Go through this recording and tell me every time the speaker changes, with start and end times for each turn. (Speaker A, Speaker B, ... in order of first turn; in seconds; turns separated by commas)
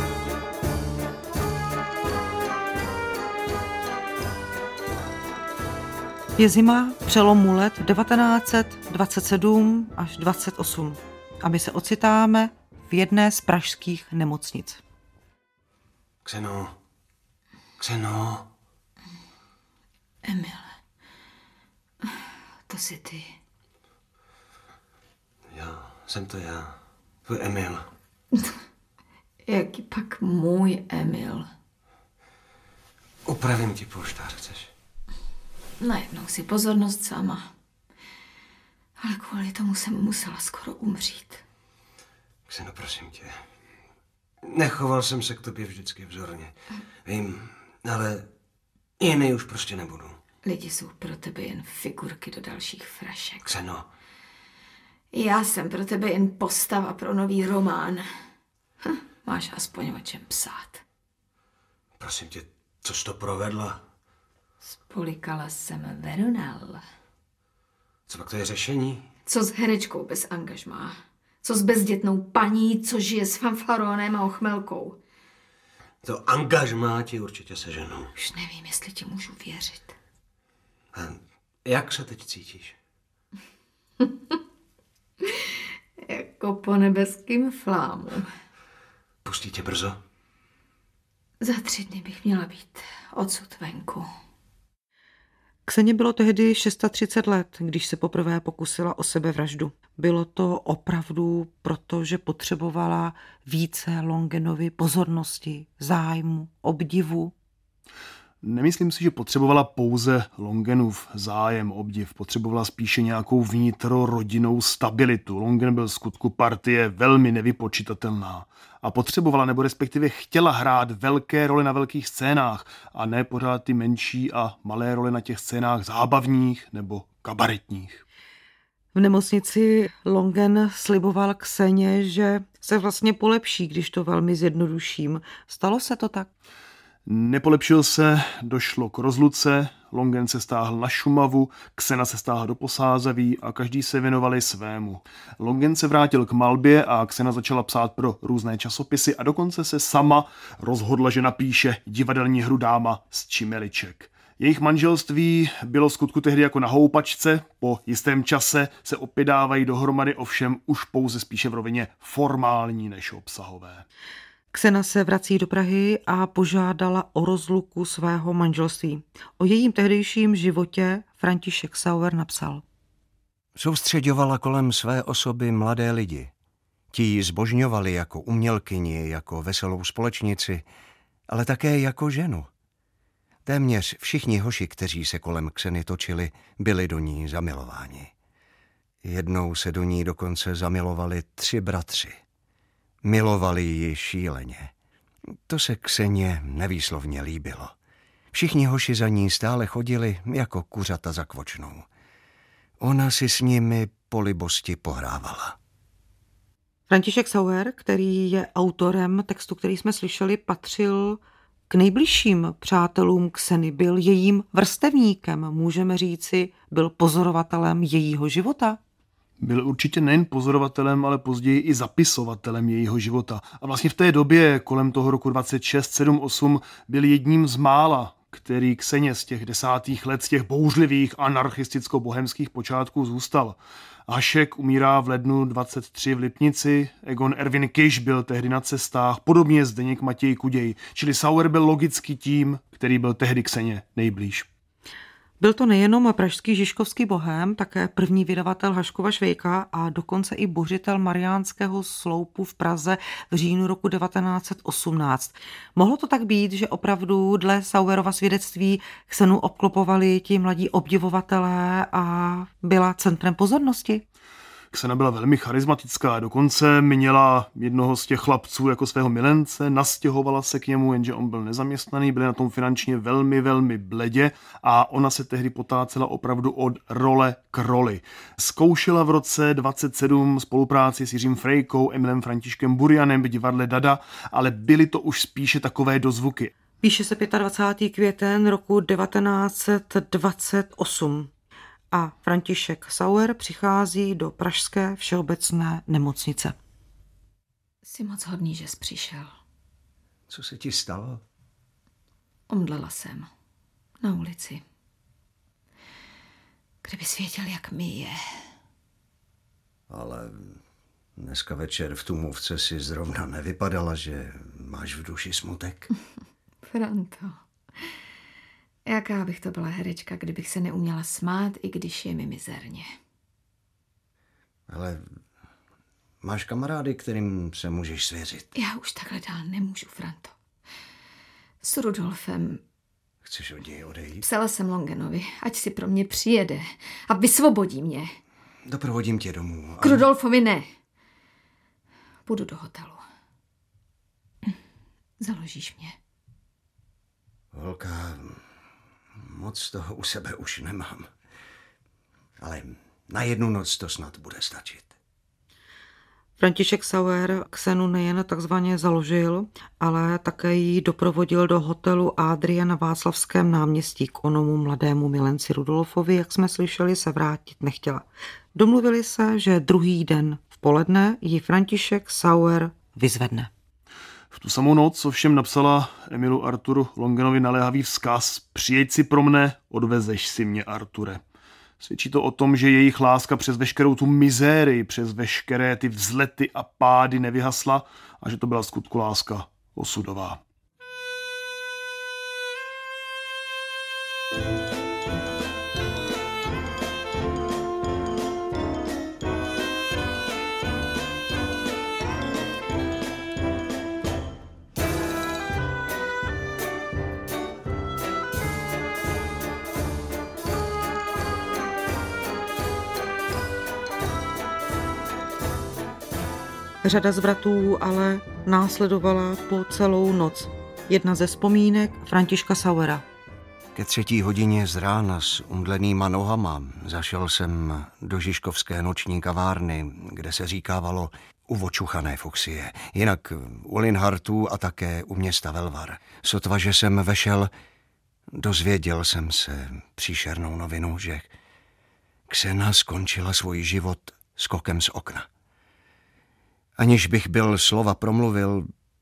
Speaker A: 6.4-14.8, Speaker B: 16.2-16.8, Speaker B: 17.8-18.5, Speaker C: 20.2-20.8, Speaker C: 22.0-23.3, Speaker B: 25.5-27.9, Speaker C: 29.5-31.5, Speaker B: 33.3-34.7, Speaker C: 35.8-37.4, Speaker C: 39.0-41.4, Speaker B: 42.5-43.4, Speaker B: 44.4-46.5, Speaker B: 47.0-48.3, Speaker B: 49.0-50.2, Speaker C: 50.4-53.5, Speaker B: 53.5-53.9, Speaker C: 55.1-58.1, Speaker C: 58.9-60.8, Speaker B: 62.0-63.8, Speaker C: 64.7-66.8, Speaker B: 68.1-69.1, Speaker C: 69.3-75.0, Speaker B: 76.0-78.1, Speaker C: 78.2-80.0, Speaker B: 80.9-82.8, Speaker C: 86.0-88.3, Speaker B: 89.2-90.0, Speaker C: 91.4-94.1, Speaker A: 95.7-107.3, Speaker D: 108.4-128.0, Speaker A: 128.9-136.3, Speaker D: 137.1-163.8, Speaker A: 164.5-172.6, Speaker E: 173.6-176.3, Speaker E: 176.9-180.7, Speaker E: 181.3-182.5, Speaker E: 183.5-188.1, Speaker E: 189.0-192.2, Speaker E: 193.0-194.7, Speaker E: 195.5-197.7, Speaker E: 198.3-201.9, Speaker E: 202.8-205.6, Speaker A: 206.9-218.8, Speaker D: 219.4-244.5, Speaker A: 245.4-264.0, Speaker D: 264.7-286.5, Speaker A: 286.8-291.3, Speaker A: 291.9-296.6, Speaker C: 297.8-299.4, Speaker E: 300.3-301.2, Speaker C: 302.5-303.3, Speaker C: 304.0-304.6, Speaker C: 306.8-308.2, Speaker E: 309.9-310.6, Speaker E: 311.2-315.9, Speaker C: 316.7-317.4, Speaker C: 318.9-322.9, Speaker E: 324.7-325.1, Speaker E: 326.2-328.5, Speaker C: 328.6-330.4, Speaker C: 331.6-332.6, Speaker E: 333.2-334.2, Speaker C: 334.2-338.1, Speaker E: 338.7-340.1, Speaker C: 339.8-340.7, Speaker C: 342.3-343.0, Speaker C: 345.2-346.0, Speaker E: 347.5-348.4, Speaker E: 349.2-351.1, Speaker E: 352.4-354.9, Speaker A: 356.4-373.5, Speaker D: 374.3-381.2, Speaker D: 381.8-390.4, Speaker A: 416.8-423.0, Speaker E: 423.7-437.5, Speaker E: 438.3-441.3, Speaker E: 442.3-445.3, Speaker E: 446.8-448.7